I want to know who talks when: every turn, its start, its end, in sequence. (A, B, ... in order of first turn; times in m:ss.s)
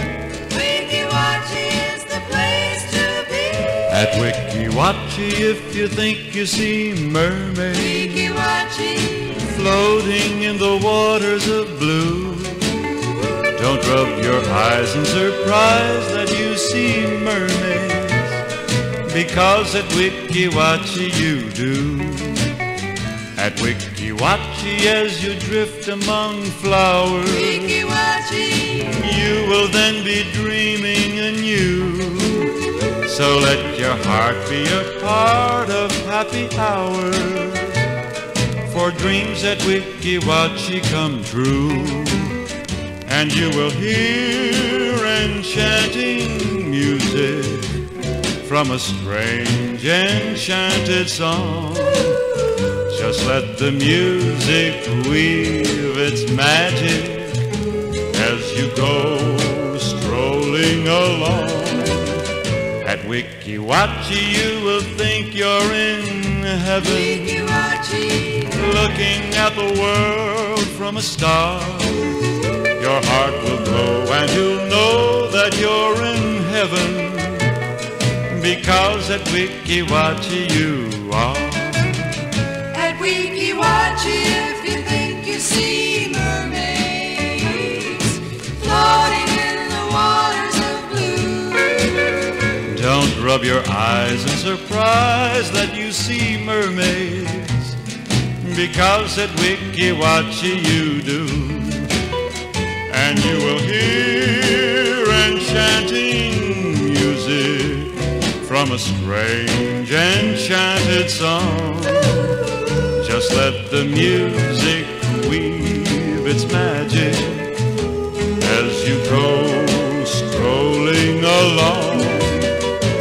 0:00.4-0:03.8 A
0:03.9-0:08.4 B
0:07.8-0:09.4 A
0:09.4-0:12.8 B
0:13.5-0:18.4 B
0:19.1-0:22.6 B
0:23.4-0:27.8 B
0:27.4-0:29.0 A
0:28.8-0:37.9 B
0:38.6-0:42.4 B
0:43.1-0:47.8 B
0:48.4-0:52.3 B
0:52.9-0:57.5 B
0:58.1-1:02.3 B
1:02.8-1:07.6 B
1:07.0-1:08.5 A
1:08.4-1:12.2 B
1:12.8-1:17.6 B
1:18.3-1:22.3 B
1:22.7-1:32.1 A
1:32.6-1:37.8 B
1:38.4-1:41.9 B
1:42.9-1:52.4 B
1:53.0-1:57.6 B
1:58.4-2:02.6 B